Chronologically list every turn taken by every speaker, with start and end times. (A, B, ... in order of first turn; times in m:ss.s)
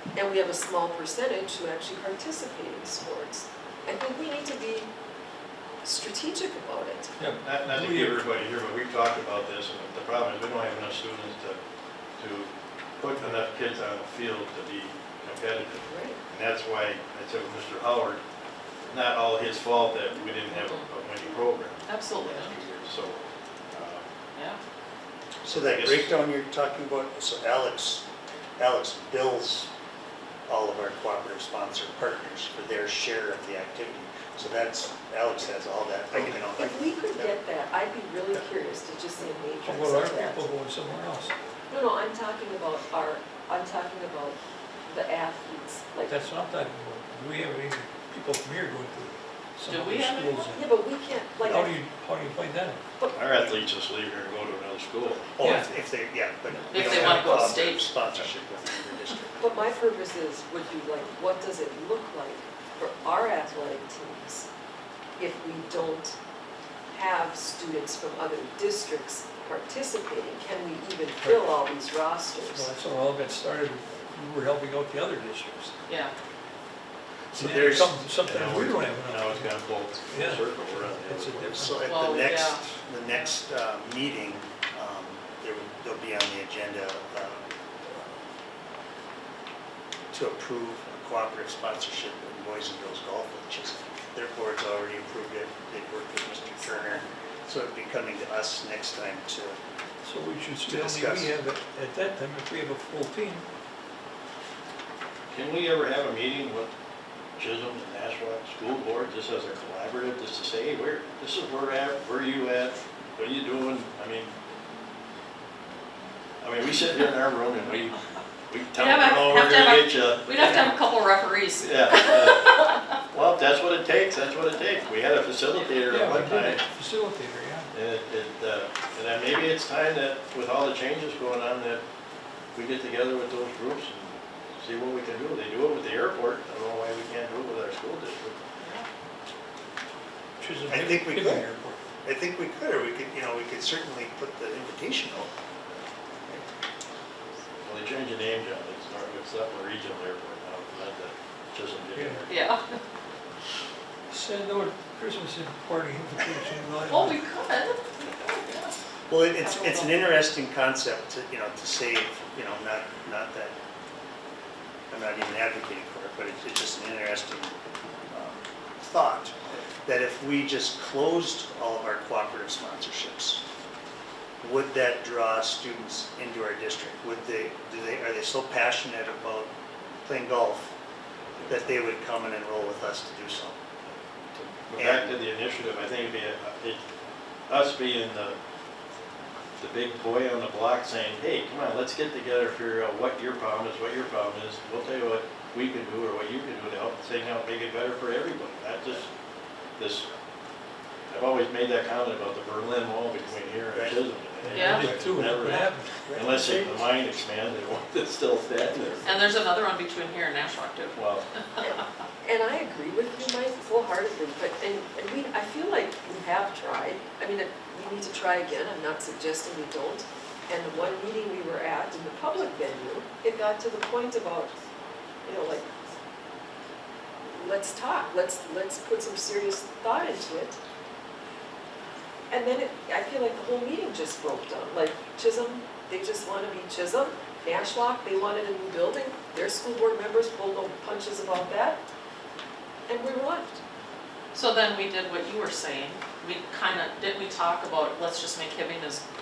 0:00.1-0:04.9 A
0:05.8-0:07.1 A
0:07.2-0:08.2 B
0:07.4-0:11.6 C
0:12.2-0:18.2 C
0:15.8-0:16.2 A
0:18.8-0:24.0 C
0:21.9-0:22.5 D
0:25.4-0:28.0 E
0:25.5-0:26.2 C
0:28.6-0:29.7 E
0:30.5-0:37.3 E
0:36.3-0:40.4 A
0:39.6-0:41.3 B
0:41.7-0:46.2 A
0:46.1-0:50.7 B
0:49.7-0:50.4 D
0:50.5-0:51.8 A
0:51.4-0:52.8 B
0:53.1-0:55.3 C
0:55.3-0:59.5 E
0:55.4-0:55.7 B
0:56.5-0:57.5 B
0:56.7-0:57.9 D
0:59.4-1:04.5 A
1:05.2-1:06.2 A
1:06.9-1:12.6 A
1:11.2-1:11.5 B
1:12.5-1:15.7 B
1:15.9-1:16.1 D
1:17.3-1:18.0 E
1:17.3-1:21.8 B
1:18.2-1:21.6 C
1:21.6-1:28.2 E
1:21.8-1:22.6 D
1:30.1-1:39.6 E
1:36.7-1:37.0 D
1:40.0-1:43.4 B
1:40.6-1:41.3 E
1:45.3-1:46.7 C
1:47.4-1:54.3 C
1:56.4-2:00.8 C
1:58.7-2:02.8 D
2:01.6-2:02.6 C
2:03.1-2:06.6 C
2:05.9-2:07.7 B
2:07.7-2:11.8 C
2:12.5-2:18.4 C
2:18.6-2:18.9 D
2:20.4-2:21.8 B
2:20.7-2:21.5 E
2:22.0-2:25.3 E
2:27.6-2:32.3 C
2:31.9-2:32.3 B
2:32.3-2:32.8 D
2:34.1-2:37.2 B
2:36.9-2:38.8 D
2:39.1-2:43.5 E
2:39.4-2:39.9 D
2:44.9-2:47.5 E
2:48.1-2:53.4 E
2:54.4-2:59.5 E
3:00.0-3:00.7 E
3:01.3-3:01.7 C
3:01.5-3:03.6 E
3:04.3-3:06.8 C
3:04.8-3:05.2 E
3:07.5-3:08.4 C
3:09.6-3:19.0 C
3:19.8-3:20.1 C
3:21.1-3:29.3 C
3:24.4-3:26.4 B
3:24.5-3:24.9 D
3:26.1-3:26.6 E
3:29.0-3:31.0 D
3:30.9-3:31.2 C
3:31.6-3:44.5 A
3:45.2-3:45.7 A
3:47.2-3:50.6 A
3:52.3-4:01.8 A
4:02.9-4:03.6 A
4:04.3-4:09.0 D